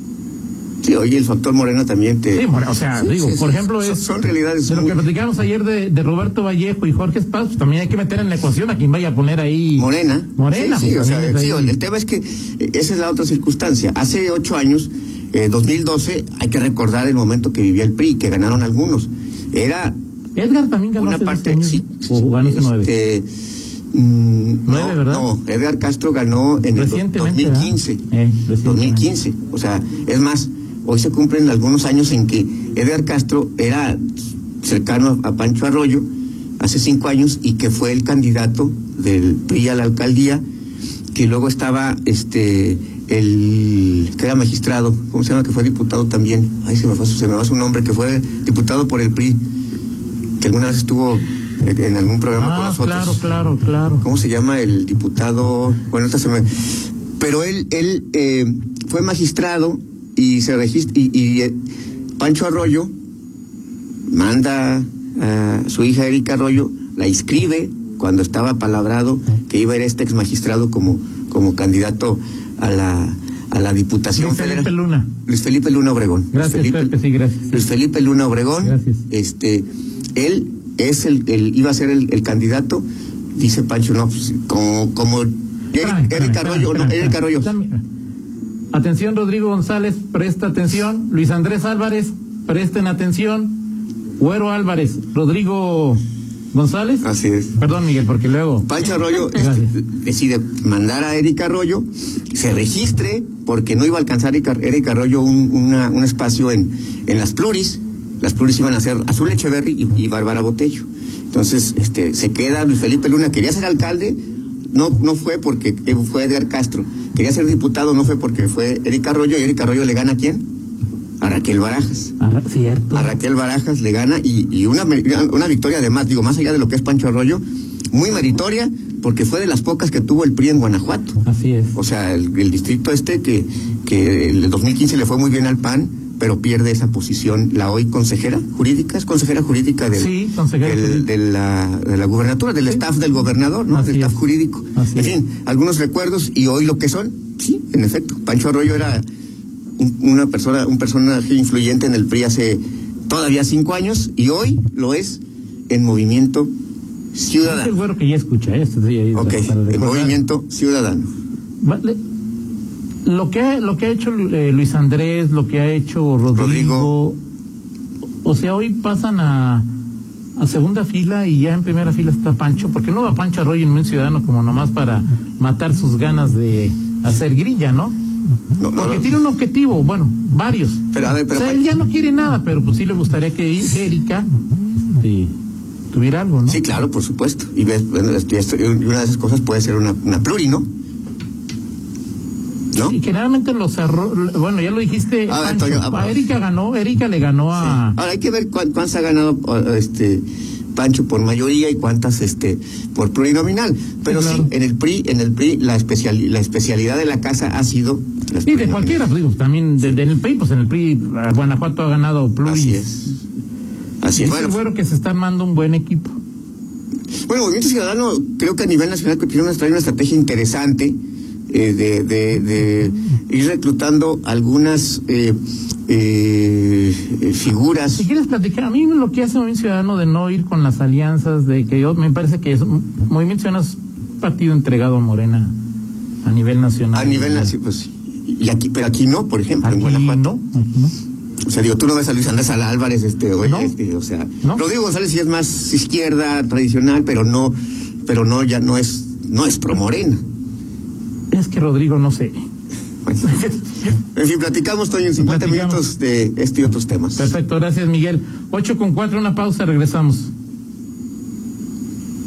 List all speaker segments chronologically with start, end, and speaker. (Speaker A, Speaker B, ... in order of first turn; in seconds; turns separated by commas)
Speaker A: 0.8-5.0, Speaker B: 2.3-4.0, Speaker B: 4.7-11.8, Speaker A: 9.8-19.9, Speaker B: 20.3-22.9, Speaker A: 20.9-23.3, Speaker A: 23.9-28.0, Speaker B: 24.6-25.3, Speaker B: 26.7-29.1, Speaker A: 28.6-34.0, Speaker A: 34.6-36.0, Speaker A: 36.6-40.4, Speaker A: 41.1-49.4, Speaker A: 50.4-53.2, Speaker B: 52.3-54.0, Speaker A: 54.0-56.5, Speaker A: 57.2-61.5, Speaker A: 62.2-62.9, Speaker A: 64.1-74.7, Speaker B: 74.2-75.1, Speaker A: 75.2-76.9, Speaker B: 76.3-77.6, Speaker A: 77.5-82.8, Speaker B: 78.6-79.0, Speaker A: 83.3-87.5, Speaker B: 85.8-87.8, Speaker B: 88.7-96.0, Speaker B: 96.5-97.0, Speaker A: 97.0-97.6, Speaker B: 97.6-98.7, Speaker A: 98.6-114.2, Speaker B: 99.3-99.7, Speaker A: 114.7-120.4, Speaker A: 121.2-122.1, Speaker B: 122.2-123.1, Speaker A: 122.9-131.2, Speaker B: 131.2-131.8, Speaker A: 131.7-149.0, Speaker B: 139.9-141.1, Speaker B: 143.7-144.2, Speaker B: 144.7-145.1, Speaker A: 149.8-156.5, Speaker A: 157.1-157.7, Speaker B: 157.4-160.2, Speaker A: 159.1-161.1, Speaker B: 161.6-162.0, Speaker B: 163.0-167.2, Speaker A: 166.3-166.9, Speaker B: 168.2-169.7, Speaker B: 170.4-177.9, Speaker A: 178.6-179.1, Speaker B: 178.8-184.3, Speaker A: 180.9-181.7, Speaker B: 184.8-185.3, Speaker B: 185.9-186.6, Speaker A: 186.5-190.6, Speaker A: 192.7-193.0, Speaker B: 192.8-198.0, Speaker A: 195.3-196.2, Speaker A: 197.6-200.2, Speaker A: 200.7-209.1, Speaker B: 204.1-204.5, Speaker B: 208.4-212.8, Speaker A: 212.4-213.2, Speaker A: 214.0-214.6, Speaker B: 214.1-216.1, Speaker A: 217.3-221.0, Speaker A: 221.5-228.1, Speaker B: 227.9-235.5, Speaker B: 236.2-237.5, Speaker A: 236.9-240.3, Speaker B: 239.6-240.9, Speaker A: 241.4-250.2, Speaker B: 243.4-243.7, Speaker B: 251.3-252.4, Speaker A: 253.0-253.4, Speaker B: 253.2-253.9, Speaker A: 254.1-257.3, Speaker B: 255.2-255.8, Speaker B: 257.1-260.3